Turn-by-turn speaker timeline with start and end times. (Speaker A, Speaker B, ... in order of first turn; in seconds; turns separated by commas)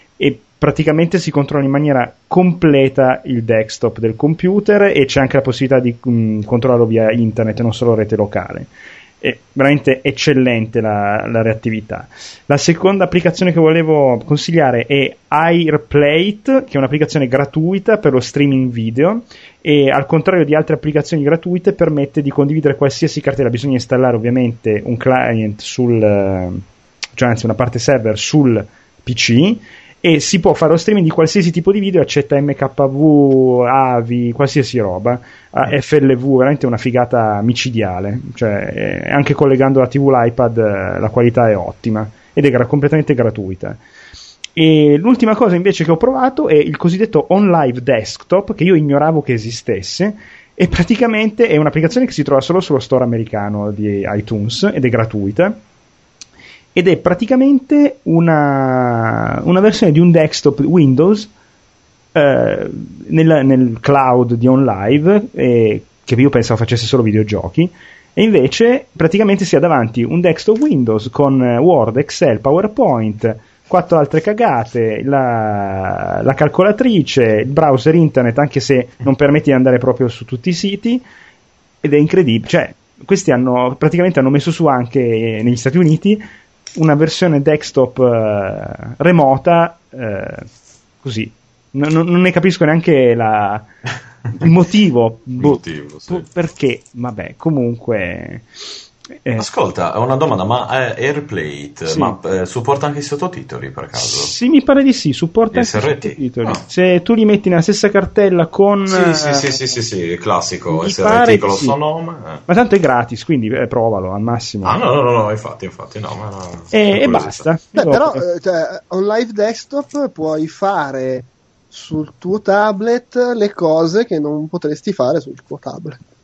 Speaker A: 0.2-26.6, Speaker A: 27.1-43.8, Speaker A: 44.5-55.6, Speaker A: 56.7-61.3, Speaker A: 62.1-81.0, Speaker A: 81.8-86.2, Speaker A: 86.7-90.5, Speaker A: 91.0-93.7, Speaker A: 94.3-98.5, Speaker B: 95.3-96.3, Speaker B: 99.4-104.3, Speaker A: 101.8-102.2, Speaker A: 104.0-109.6, Speaker B: 105.5-106.6, Speaker B: 108.9-112.4, Speaker A: 110.7-111.8, Speaker A: 112.5-114.8, Speaker B: 114.6-117.5, Speaker A: 116.7-118.2, Speaker C: 117.8-126.0